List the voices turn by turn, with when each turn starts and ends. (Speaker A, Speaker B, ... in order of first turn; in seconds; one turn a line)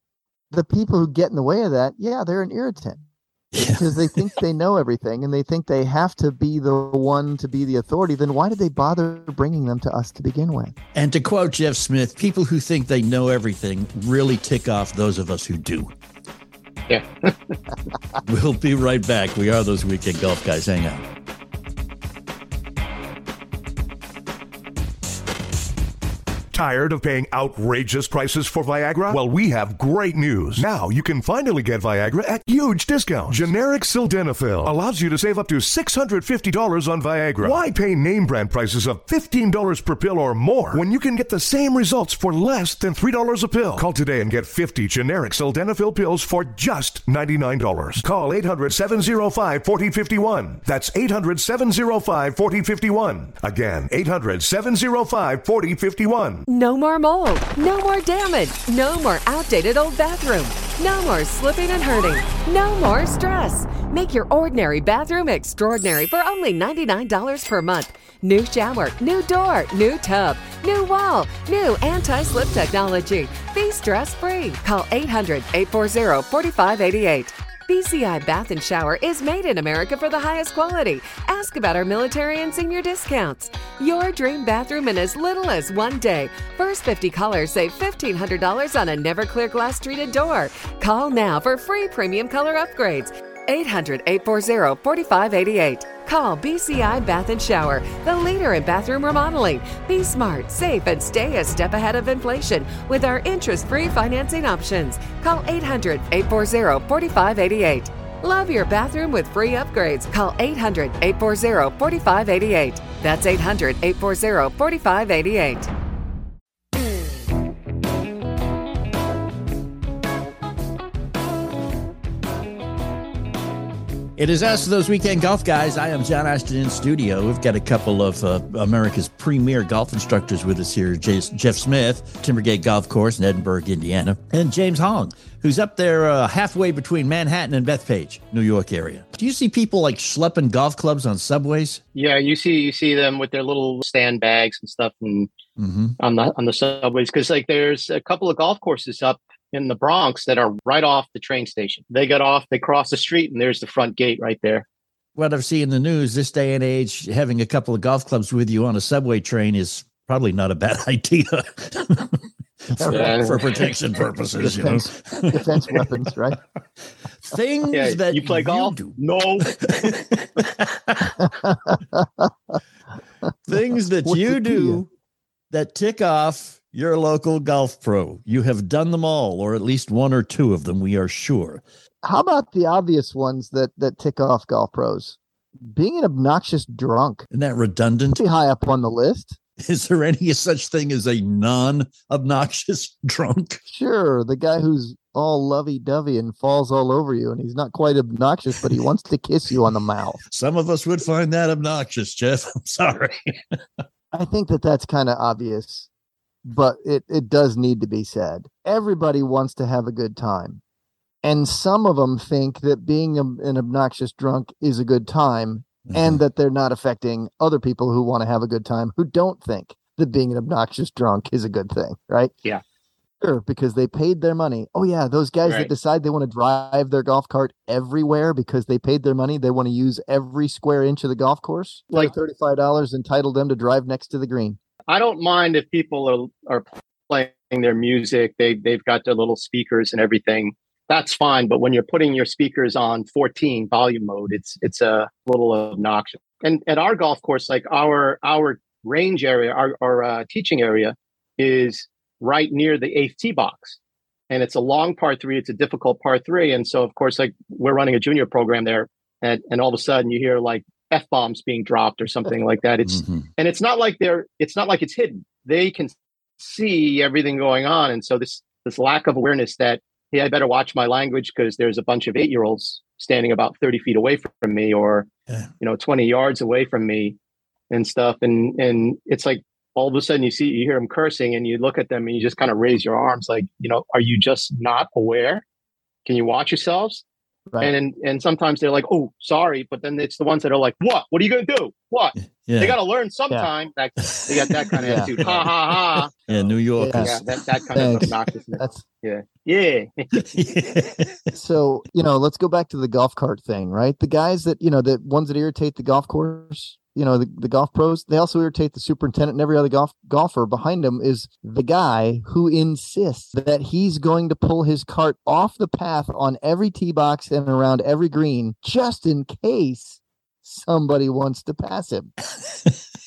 Speaker A: 0.5-3.0
Speaker B: 3.5-4.1
Speaker A: 3.6-10.7
Speaker B: 10.9-15.9
Speaker C: 16.9-17.5
Speaker B: 18.2-21.0
Speaker D: 26.5-56.4
Speaker E: 56.5-115.7
Speaker B: 124.2-141.8
Speaker C: 141.9-145.3
Speaker B: 145.6-145.9
Speaker C: 146.0-154.7
Speaker B: 155.2-165.9
Speaker A: 162.8-163.3
Speaker C: 162.9-163.4
Speaker A: 164.4-166.4
Speaker B: 167.2-169.0
Speaker C: 167.7-169.9
Speaker B: 169.6-171.2
Speaker A: 171.2-172.3
Speaker B: 173.5-174.9
Speaker A: 174.1-174.8
Speaker B: 175.5-181.6
Speaker A: 182.0-185.2
Speaker A: 185.7-187.2
Speaker B: 187.3-188.2
Speaker A: 188.1-189.4
Speaker B: 189.6-193.6
Speaker A: 193.7-200.2
Speaker B: 200.3-203.4
Speaker A: 204.1-205.9
Speaker A: 206.4-210.6
Speaker A: 211.2-222.3
Speaker B: 215.9-216.2
Speaker A: 223.2-234.6
Speaker C: 234.9-253.8
Speaker C: 254.3-275.1
Speaker B: 262.8-263.3
Speaker C: 275.6-277.1
Speaker C: 277.7-285.4
Speaker C: 286.1-287.0
Speaker C: 287.6-296.1
Speaker B: 292.4-292.8
Speaker B: 294.1-297.2
Speaker A: 294.8-295.1
Speaker A: 296.8-297.2
Speaker C: 297.0-300.1
Speaker A: 297.7-298.8
Speaker B: 300.1-301.2
Speaker A: 301.3-322.1